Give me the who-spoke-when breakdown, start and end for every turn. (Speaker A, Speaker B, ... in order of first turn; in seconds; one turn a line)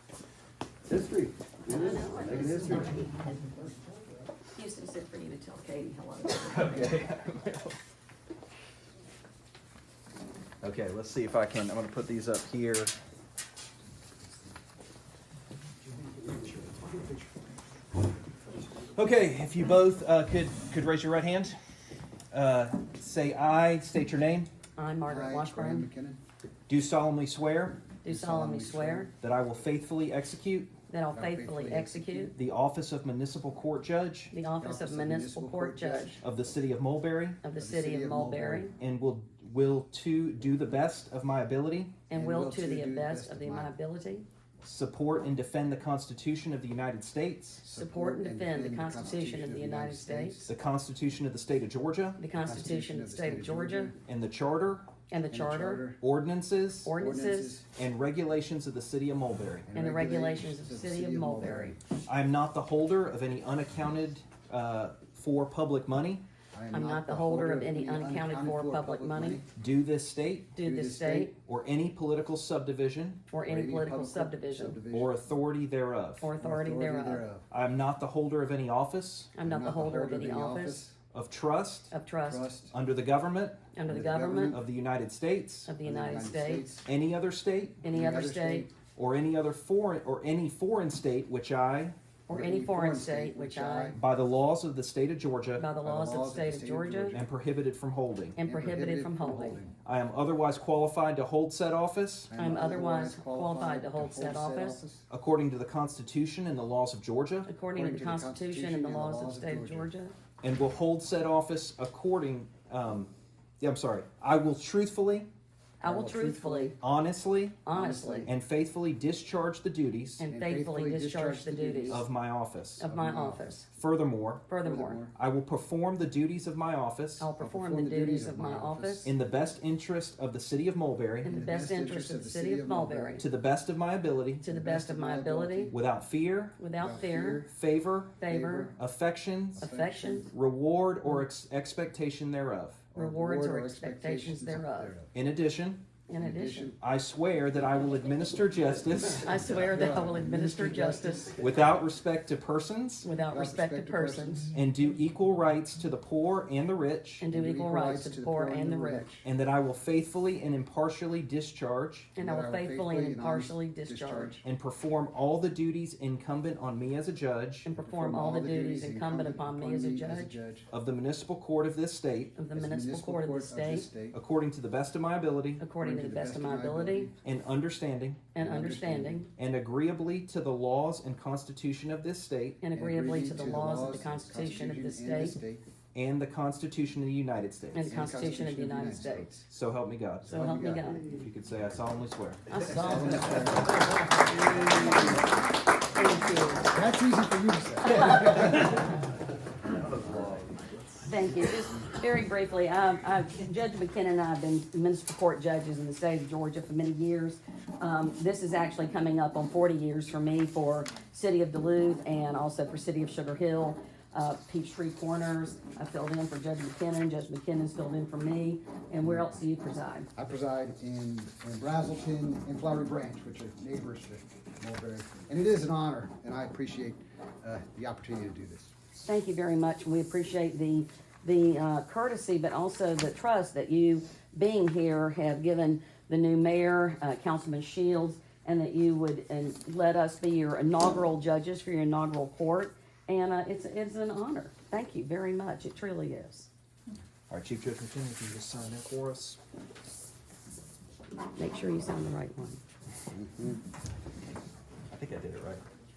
Speaker A: 0.9-3.7
Speaker B: 1.7-3.2
Speaker C: 2.2-2.9
Speaker B: 4.5-7.0
Speaker C: 6.3-7.8
Speaker C: 10.6-12.9
Speaker A: 16.4-17.0
Speaker C: 18.9-21.6
Speaker C: 22.3-24.5
Speaker B: 24.8-25.9
Speaker A: 25.1-26.2
Speaker C: 26.7-27.8
Speaker B: 28.0-29.1
Speaker A: 28.1-29.1
Speaker C: 29.1-30.7
Speaker B: 30.9-32.3
Speaker A: 31.1-32.3
Speaker C: 32.3-34.3
Speaker B: 34.3-36.2
Speaker A: 34.6-36.2
Speaker C: 36.2-37.4
Speaker B: 37.4-38.7
Speaker A: 37.6-38.7
Speaker C: 38.8-42.0
Speaker B: 42.1-44.2
Speaker A: 42.1-43.7
Speaker C: 44.6-47.6
Speaker A: 47.6-50.5
Speaker B: 47.7-50.4
Speaker C: 50.5-52.2
Speaker B: 52.2-53.9
Speaker A: 52.4-54.0
Speaker C: 54.0-54.9
Speaker B: 55.1-55.9
Speaker A: 55.3-56.0
Speaker C: 56.0-56.9
Speaker B: 56.8-57.6
Speaker A: 57.0-57.6
Speaker C: 57.7-59.7
Speaker A: 59.7-61.8
Speaker B: 59.7-61.7
Speaker C: 62.1-66.2
Speaker A: 66.5-69.5
Speaker B: 66.7-69.4
Speaker C: 69.6-70.6
Speaker B: 70.5-71.3
Speaker A: 70.6-71.3
Speaker C: 71.4-73.2
Speaker B: 73.3-74.8
Speaker A: 73.4-75.1
Speaker C: 74.9-76.3
Speaker B: 76.2-77.2
Speaker A: 76.4-77.4
Speaker C: 77.5-79.3
Speaker B: 79.3-80.8
Speaker A: 79.4-81.0
Speaker C: 81.1-81.9
Speaker B: 81.9-82.5
Speaker A: 82.2-82.7
Speaker C: 82.7-83.6
Speaker B: 83.7-84.6
Speaker A: 83.9-84.6
Speaker C: 84.5-85.7
Speaker B: 85.7-86.8
Speaker A: 85.8-86.8
Speaker C: 86.8-87.8
Speaker B: 87.8-88.7
Speaker A: 87.9-88.7
Speaker C: 88.9-91.9
Speaker B: 92.3-94.0
Speaker A: 92.3-94.0
Speaker C: 93.9-95.7
Speaker B: 95.6-97.2
Speaker A: 95.8-97.3
Speaker C: 97.1-98.4
Speaker B: 98.4-99.6
Speaker A: 98.4-99.7
Speaker C: 99.8-102.3
Speaker A: 102.3-105.0
Speaker B: 102.3-104.8
Speaker C: 105.1-107.5
Speaker B: 107.5-110.1
Speaker A: 107.7-109.9
Speaker C: 110.4-115.3
Speaker B: 115.8-116.7
Speaker A: 115.8-116.7
Speaker C: 116.8-117.7
Speaker B: 117.6-118.3
Speaker A: 117.7-118.3
Speaker C: 118.2-120.2
Speaker B: 120.2-122.0
Speaker A: 120.3-122.0
Speaker C: 121.9-122.8
Speaker B: 122.8-123.7
Speaker A: 122.8-123.5
Speaker C: 123.7-124.4
Speaker B: 124.5-125.0
Speaker A: 124.6-125.1
Speaker C: 125.1-127.3
Speaker B: 127.2-129.1
Speaker A: 127.4-129.1
Speaker C: 129.0-131.4
Speaker B: 131.2-133.2
Speaker A: 131.3-133.2
Speaker C: 133.2-134.4
Speaker B: 134.4-135.7
Speaker A: 134.4-135.7
Speaker C: 135.7-136.6
Speaker B: 136.6-137.4
Speaker A: 136.8-137.5
Speaker C: 137.4-138.2
Speaker B: 138.2-138.7
Speaker A: 138.2-138.8
Speaker C: 138.8-139.6
Speaker A: 139.5-140.3
Speaker B: 139.6-140.3
Speaker C: 140.3-142.9
Speaker A: 142.9-145.1
Speaker B: 142.9-144.9
Speaker C: 145.1-145.8
Speaker B: 146.1-146.7
Speaker A: 146.2-146.8
Speaker C: 146.8-149.4
Speaker B: 149.1-151.5
Speaker A: 149.5-151.5
Speaker C: 151.4-153.1
Speaker B: 153.0-154.5
Speaker A: 153.3-154.5
Speaker C: 154.5-157.3
Speaker B: 157.2-159.1
Speaker A: 157.3-159.2
Speaker C: 159.2-162.1
Speaker B: 162.1-164.4
Speaker A: 162.2-164.4
Speaker C: 164.4-167.7
Speaker B: 167.7-170.3
Speaker A: 167.7-170.7
Speaker C: 170.7-172.4
Speaker B: 172.3-173.9
Speaker A: 172.5-174.2
Speaker C: 174.1-175.6
Speaker B: 175.6-177.1
Speaker A: 175.8-177.1
Speaker C: 177.2-178.3
Speaker B: 178.3-179.3
Speaker A: 178.4-179.2
Speaker C: 179.3-182.6
Speaker B: 182.6-185.3
Speaker A: 182.7-185.6
Speaker C: 185.9-187.8
Speaker B: 187.7-189.3
Speaker A: 187.8-189.4
Speaker C: 189.5-190.5
Speaker A: 190.3-191.0
Speaker B: 190.3-191.0
Speaker C: 191.1-193.4
Speaker B: 192.5-195.3
Speaker A: 192.7-193.9
Speaker B: 195.9-196.7
Speaker A: 196.7-198.7
Speaker B: 197.9-198.5
Speaker C: 198.0-198.7
Speaker C: 199.7-201.0
Speaker B: 201.1-220.1
Speaker A: 219.0-219.3
Speaker A: 220.1-228.7
Speaker B: 229.0-246.5
Speaker C: 247.3-249.4
Speaker B: 251.4-252.6
Speaker A: 253.1-253.6
Speaker C: 254.9-255.6